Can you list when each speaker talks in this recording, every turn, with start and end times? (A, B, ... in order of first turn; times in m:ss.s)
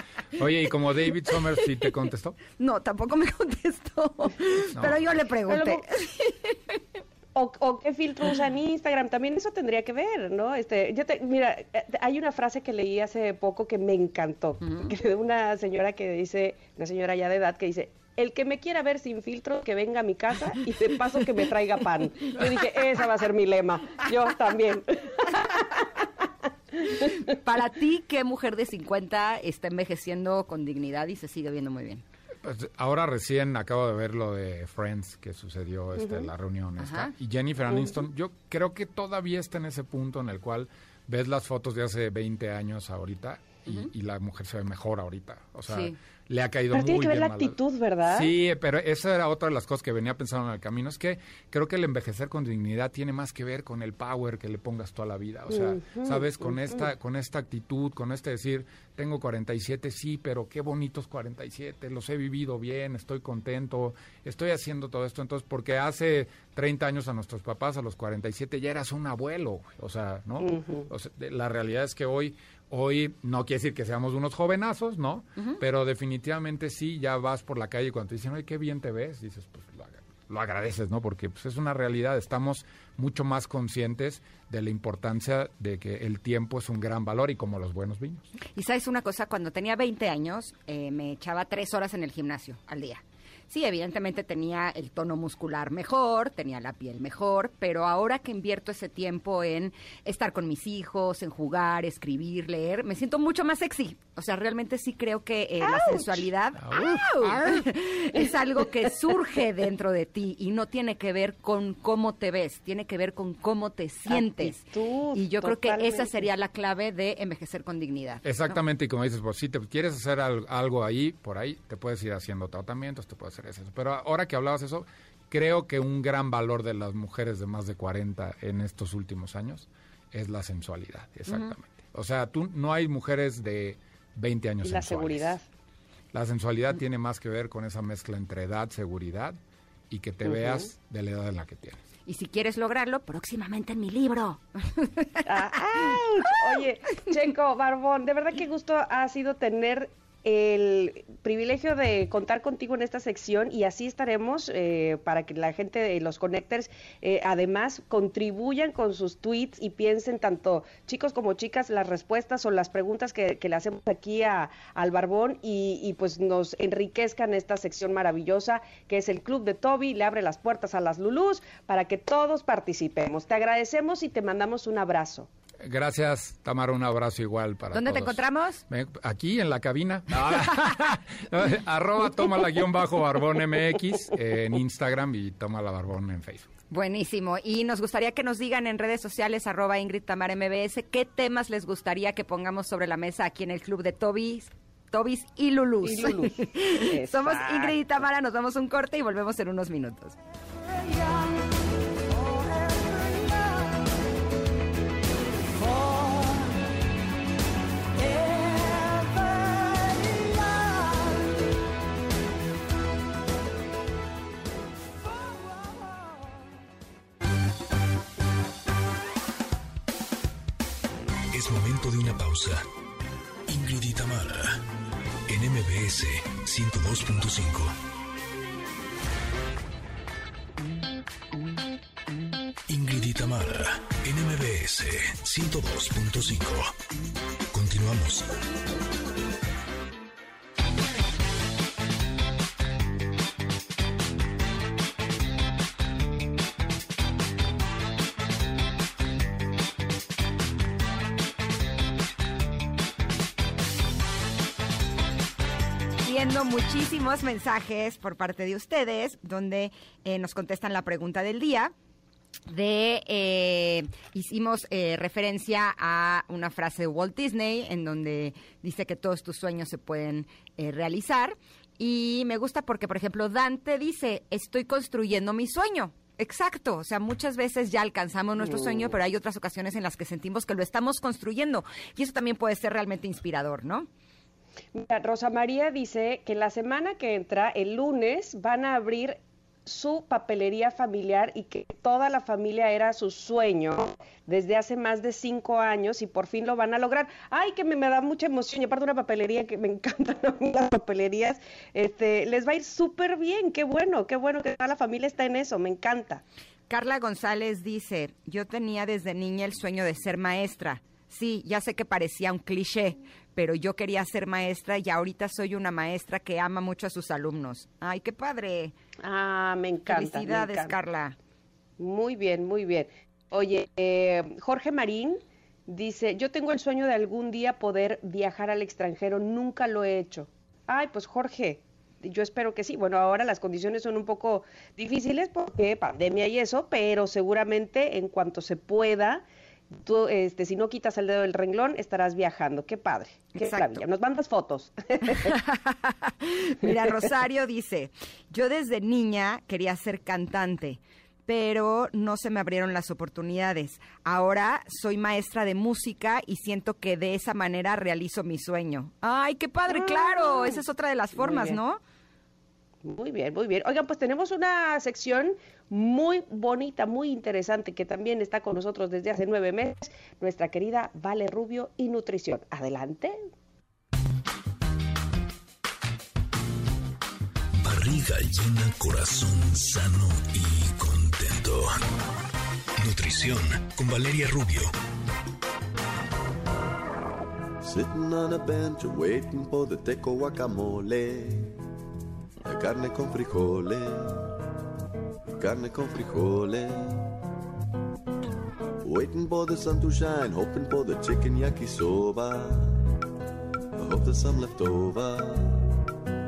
0:00.4-0:02.4 A
0:01.3-0:01.9 B
0:02.6-0:06.8 B
0:04.8-0:05.1 A
0:05.5-0:05.8 C
0:07.3-0:25.9 C
0:14.6-0:14.9 B
0:27.2-0:32.0 B
0:32.4-1:28.3 A
0:36.8-0:37.1 B
0:45.7-0:46.0 B
0:46.7-0:48.3 C
0:55.5-0:56.8 C
1:10.4-1:10.9 C
1:28.6-1:54.6 B
1:45.7-1:46.2 C
1:46.6-1:47.6 A
1:54.1-1:56.1 C
1:55.1-1:58.2 B
1:58.2-2:15.4 A
2:14.6-2:15.4 C
2:16.1-2:19.4 A
2:19.9-2:21.8 A
2:20.3-2:20.7 C
2:22.0-2:26.4 B
2:25.2-2:55.3 C
2:55.6-3:06.5 A
2:57.7-2:58.6 B
3:06.7-3:20.2 B
3:15.8-3:17.8 C
3:20.9-3:21.3 C
3:41.3-3:42.6 D
3:43.5-3:44.6 D
3:45.3-3:47.8 D
3:52.7-3:56.8 D
3:57.5-3:58.3 D
4:16.0-4:21.7 B
4:22.5-4:43.9 B
4:38.4-4:38.9 C
4:44.7-5:06.2 C
5:06.7-5:18.7 B
5:19.0-5:20.7 C
5:19.9-5:21.1 B
5:21.8-5:45.4 C
5:43.3-5:43.8 B
5:45.1-6:01.8 B
5:46.6-5:46.9 C
5:59.7-6:00.6 C
6:01.2-6:01.6 C
6:02.8-6:13.2 C
6:17.6-6:21.8 D
6:22.8-6:24.7 D
6:27.6-6:31.6 E
6:32.4-6:34.3 E
6:35.4-6:37.1 E
6:38.8-6:42.9 E
6:43.8-6:45.7 E